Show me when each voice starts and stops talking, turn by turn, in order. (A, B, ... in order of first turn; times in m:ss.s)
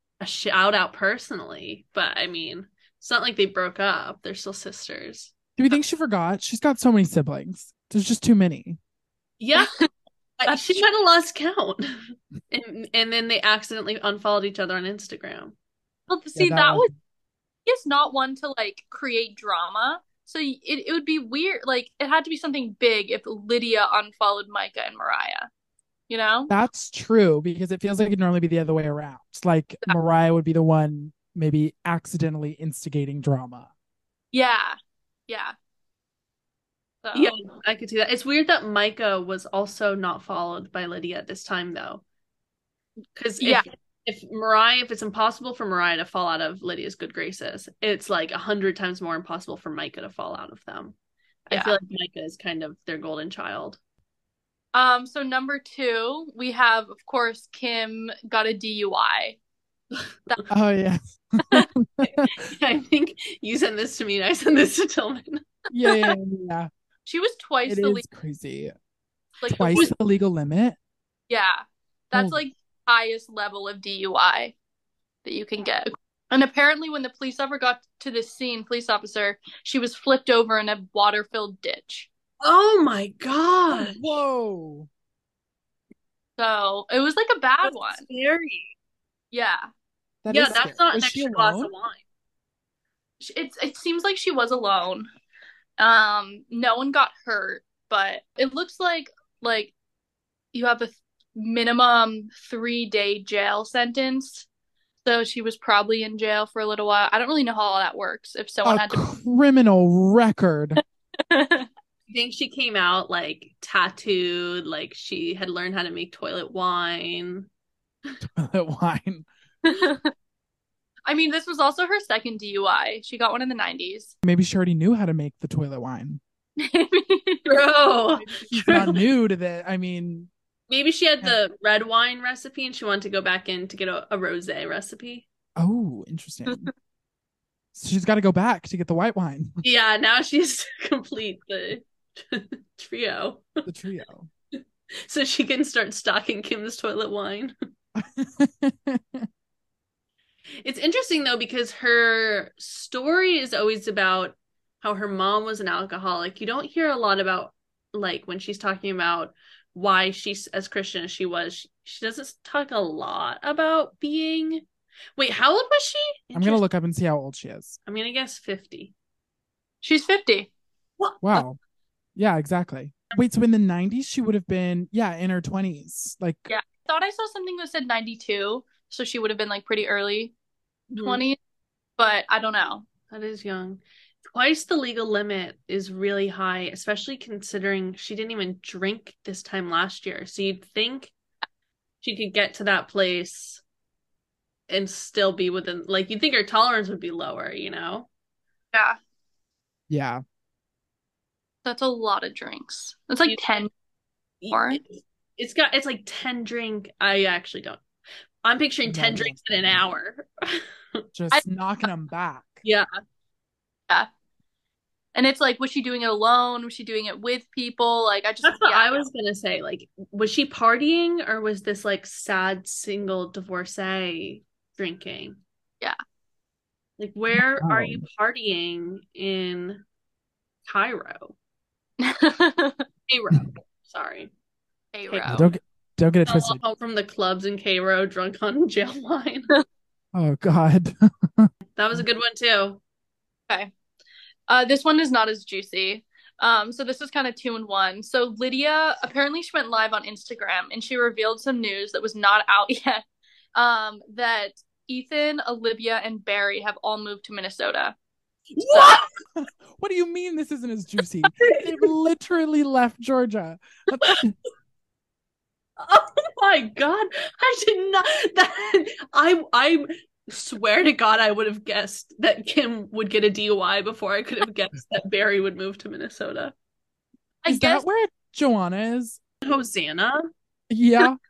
0:00.2-0:05.8 A
0:05.6-0:08.8 B
0:09.4-0:09.7 A
0:09.6-0:09.9 C
0:10.4-0:15.5 A
0:10.5-0:10.8 C
0:16.1-0:16.9 C
0:16.4-0:16.9 B
0:17.6-0:25.5 C
0:26.1-0:26.5 C
0:26.5-0:33.7 B
0:34.3-0:34.8 C
0:35.3-0:35.5 C
0:37.0-0:37.4 C
0:37.1-0:42.0 A
0:43.2-0:50.9 A
0:43.4-0:43.6 C
0:51.5-0:53.8 A
0:51.5-0:51.8 C
0:54.7-0:59.4 C
1:00.5-1:02.3 B
1:02.4-1:05.4 A
1:05.7-1:06.7 B
1:07.0-1:08.0 C
1:07.6-1:08.7 B
1:09.4-1:09.9 C
1:09.5-1:10.8 B
1:11.3-1:14.5 C
1:12.1-1:12.4 B
1:15.2-1:22.1 C
1:22.4-1:24.0 A
1:23.7-1:24.9 B
1:26.4-1:28.0 C
1:27.6-1:28.7 A
1:29.3-1:29.7 C
1:30.2-1:31.7 B
1:30.3-1:32.0 A
1:33.2-1:35.1 C
1:35.8-1:39.7 C
1:40.5-1:44.4 C
1:45.0-1:49.0 C
1:48.6-1:50.8 B
1:51.3-1:51.7 C
1:52.1-1:57.5 A
1:58.2-1:59.3 B
1:59.6-2:00.1 C
2:01.1-2:04.1 C
2:04.2-2:06.2 B
2:06.6-2:07.6 C
2:07.4-2:09.0 A
2:08.3-2:10.3 B
2:10.7-2:15.2 A
2:15.6-2:16.7 B
2:17.7-2:19.6 B
2:19.6-2:23.5 A
2:23.6-2:24.3 B
2:24.6-2:27.5 A
2:27.9-2:29.3 B
2:30.6-2:44.6 A
2:45.2-2:46.6 A
2:46.3-2:47.8 B
2:47.9-2:48.9 A
2:49.8-2:50.5 C
2:51.0-2:51.4 A
2:51.2-2:51.6 B
2:52.2-2:56.5 B
2:56.5-3:00.3 C
3:00.9-3:01.2 A
3:01.0-3:01.4 C
3:02.0-3:02.8 C
3:03.1-3:11.1 A
3:12.0-3:13.6 A
3:14.7-3:18.1 A
3:18.7-3:19.0 C
3:19.9-3:20.2 B
3:21.6-3:23.7 C
3:24.4-3:27.8 A
3:24.5-3:24.8 C
3:28.4-3:31.0 A
3:28.8-3:29.8 B
3:31.1-3:32.6 B
3:35.1-3:39.0 C
3:38.4-3:45.4 A
3:47.0-3:49.8 A
3:47.4-3:48.0 B
3:50.6-3:51.3 A
3:52.0-3:52.8 C
3:53.1-3:54.3 A
3:54.9-3:55.5 C
3:55.1-3:55.5 A
3:55.3-3:56.6 B
3:56.2-3:59.5 A
4:00.1-4:02.0 B
4:01.8-4:02.8 A
4:04.5-4:13.0 C
4:13.5-4:17.9 C
4:18.6-4:19.1 A
4:19.4-4:24.3 B
4:21.3-4:21.9 A
4:25.8-4:36.5 A
4:37.4-4:37.8 C
4:37.5-4:39.2 B
4:39.4-4:40.2 A
4:40.7-4:41.2 B